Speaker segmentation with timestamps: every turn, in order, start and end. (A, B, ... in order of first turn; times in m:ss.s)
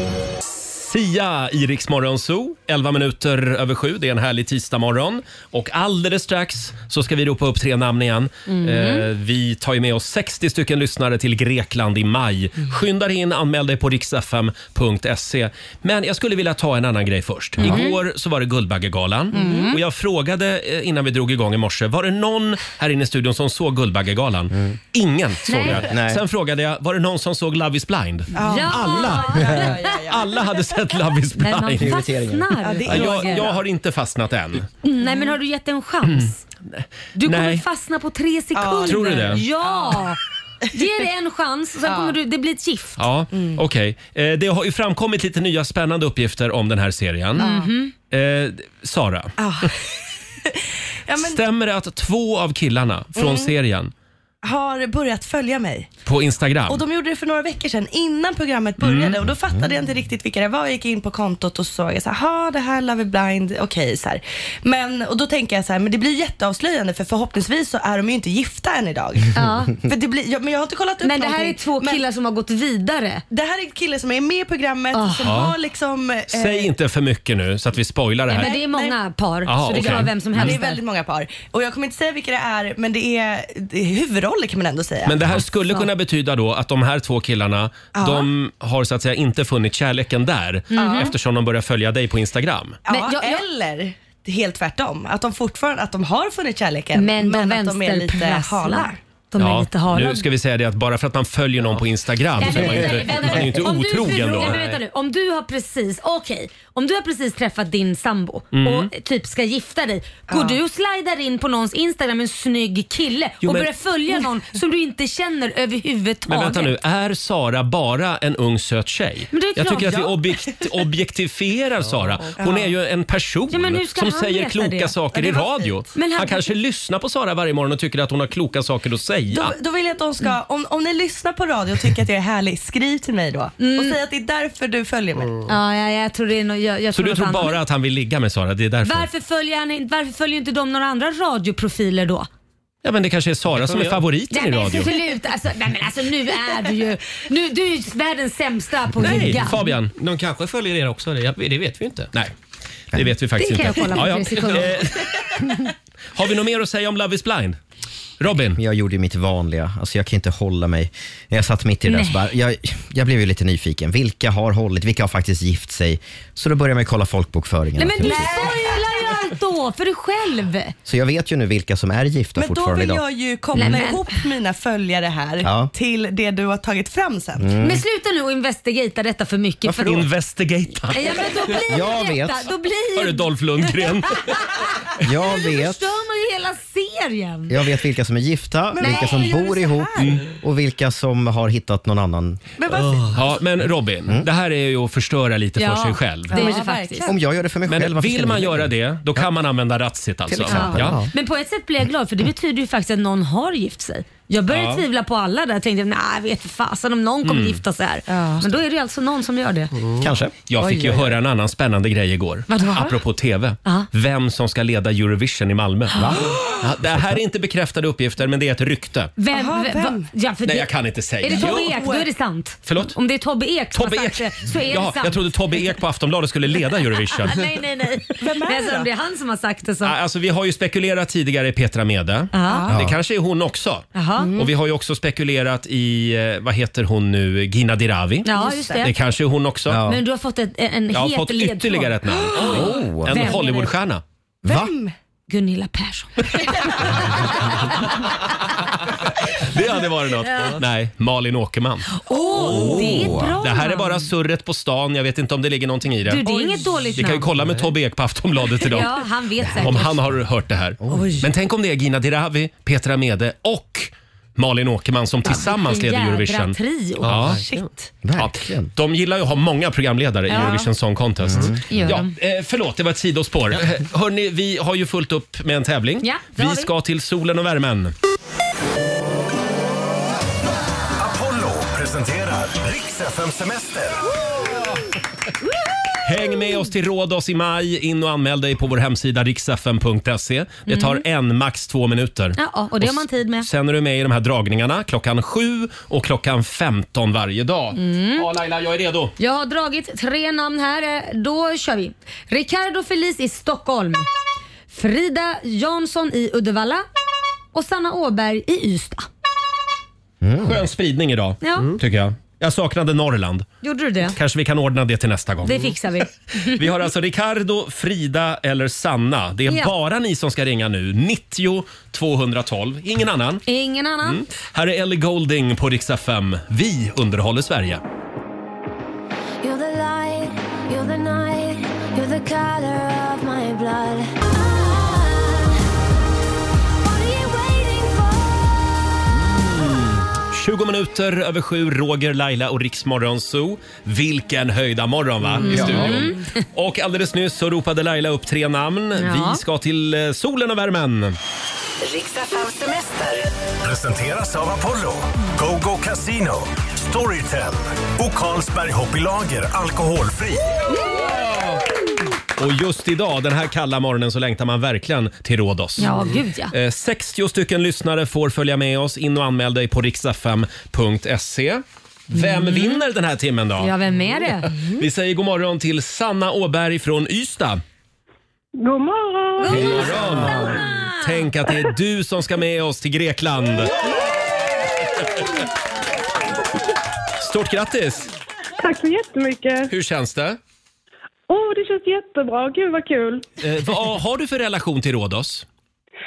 0:00.4-0:32.0 A
0:08.5-0:09.1 B
0:17.6-0:18.0 B
0:19.3-0:19.8 B
0:19.4-0:19.7 C
0:25.4-0:25.9 B
0:25.8-0:26.2 D
0:28.3-0:30.4 C
0:28.4-0:30.0 B
0:31.4-0:33.5 B
0:31.8-0:32.5 D
0:32.6-0:33.6 C
0:32.9-0:34.7 A
0:34.8-0:36.4 B
0:35.0-0:35.3 C
0:36.1-0:37.6 A
0:37.2-0:40.2 B
0:38.6-0:40.1 C
0:38.8-0:39.4 A
0:40.7-0:43.0 B
0:41.8-0:42.2 C
0:43.0-0:47.4 A
0:43.3-0:43.6 C
0:47.4-0:47.9 B
0:47.4-0:47.7 C
0:48.1-0:49.4 A
0:49.4-0:49.8 C
0:50.4-0:51.4 C
0:51.2-0:53.9 A
0:53.2-0:53.5 C
0:54.4-0:55.9 C
0:56.1-0:56.8 A
0:56.7-1:12.0 C
0:58.8-0:59.2 A
1:09.3-1:09.8 B
1:11.0-1:13.2 B
1:13.3-1:16.7 C
1:14.9-1:15.4 B
1:15.2-1:15.5 A
1:16.3-1:18.5 A
1:18.3-1:20.8 B
1:18.3-1:19.0 C
1:19.5-1:20.6 A
1:19.8-1:25.5 C
1:25.1-1:32.8 A
1:27.9-1:28.3 C
1:30.7-1:31.1 B
1:30.7-1:31.1 C
1:32.9-1:39.0 C
1:32.9-1:33.4 B
1:37.0-1:40.3 B
1:39.4-1:44.8 A
1:42.4-1:56.8 B
1:48.5-1:48.9 A
1:50.3-1:50.6 C
1:53.4-1:53.7 A
1:56.3-2:09.6 A
1:59.3-2:00.1 B
2:02.2-2:02.7 C
2:03.5-2:05.0 B
2:05.1-2:05.8 C
2:05.9-2:06.5 B
2:09.3-2:15.4 C
2:13.6-2:14.0 B
2:15.5-2:17.6 B
2:16.9-2:19.1 A
2:18.8-2:22.3 B
2:22.8-2:24.9 A
2:23.6-2:24.0 E
2:24.3-2:29.6 B
2:29.0-2:29.9 A
2:29.2-2:32.1 E
2:32.9-2:35.1 A
2:33.4-2:34.9 B
2:36.2-2:37.6 A
2:38.2-2:38.6 A
2:38.6-2:48.6 D
2:41.9-2:42.3 B
2:47.8-2:50.8 B
2:50.9-2:53.0 D
2:52.4-2:57.6 C
2:53.5-2:54.1 B
2:55.4-2:55.7 D
2:57.4-2:57.8 D
2:57.6-3:00.1 B
2:59.7-3:01.5 A
3:00.9-3:07.6 B
3:01.7-3:02.5 D
3:03.0-3:04.4 A
3:05.0-3:05.9 D
3:07.5-3:12.4 D
3:08.7-3:10.2 C
3:08.8-3:09.4 B
3:10.0-3:10.2 A
3:12.6-3:13.3 C
3:13.1-3:16.4 A
3:15.6-3:17.1 B
3:16.3-3:17.2 C
3:17.0-3:19.2 D
3:17.7-3:21.0 A
3:20.3-3:21.1 D
3:20.5-3:29.7 B
3:24.5-3:24.8 A
3:27.2-3:27.6 A
3:28.1-3:28.5 C
3:30.0-3:30.3 D
3:30.5-3:39.1 A
3:30.6-3:31.1 C
3:32.5-3:33.0 B
3:32.6-3:32.9 C
3:36.0-3:36.4 D
3:39.2-3:45.6 B
3:39.3-3:40.1 C
3:40.4-3:41.7 A
3:41.3-3:42.1 C
3:42.6-3:43.0 A
3:43.7-3:47.4 A
3:47.2-3:50.0 B
3:48.2-3:48.9 C
3:49.8-3:59.8 A
3:52.3-3:52.7 B
3:52.4-3:52.8 C
3:52.7-3:53.0 D
3:53.9-3:54.4 B
3:54.2-3:54.5 C
3:58.2-3:58.9 B
3:58.4-3:58.8 C
3:59.7-4:00.0 D
3:59.8-4:03.7 B
4:00.9-4:04.0 A
4:02.4-4:03.3 D
4:04.4-4:04.7 D
4:04.4-4:04.9 C
4:05.3-4:06.9 B
4:09.4-4:16.3 A
4:12.0-4:14.1 B
4:12.4-4:13.4 D
4:16.0-4:17.3 B
4:16.3-4:16.7 C
4:16.9-4:27.4 A
4:18.6-4:20.1 B
4:20.8-4:21.1 D
4:20.9-4:21.3 C
4:25.2-4:27.2 B
4:27.0-4:27.6 E
4:27.2-4:27.9 C
4:28.0-4:28.7 D
4:28.2-4:37.9 A
4:30.3-4:30.7 B
4:31.2-4:31.6 D
4:31.7-4:32.1 B
4:36.0-4:36.7 B
4:41.0-4:44.2 F
4:46.0-4:59.1 A
4:50.7-4:51.0 B
4:52.4-4:53.5 B
4:57.8-4:58.3 B
4:59.2-5:04.1 B
5:04.7-5:06.8 B
5:07.5-5:09.1 B
5:10.2-5:10.6 D
5:10.4-5:13.5 A
5:11.4-5:11.8 B
5:13.6-5:14.2 B
5:14.1-5:15.8 A
5:15.4-5:16.6 B
5:16.4-5:23.4 A
5:19.5-5:19.7 B
5:23.5-5:24.2 B
5:24.0-5:27.8 A
5:29.4-5:35.6 G
5:36.8-5:38.9 G
5:39.3-5:51.2 A
5:45.4-5:46.2 B
5:45.5-5:46.0 D
5:49.0-5:49.4 B
5:51.9-5:52.9 C
5:53.6-6:00.5 F
6:01.1-6:01.6 A
6:02.4-6:05.9 A
6:05.8-6:06.5 B
6:06.5-6:13.7 A
6:12.1-6:12.8 B
6:13.6-6:14.5 B
6:14.7-6:17.6 A
6:18.6-6:19.9 H
6:19.4-6:21.3 B
6:19.5-6:23.8 A
6:27.2-6:28.1 A
6:28.6-6:29.7 H
6:29.7-6:30.4 A
6:31.3-6:33.3 H
6:33.4-6:35.5 A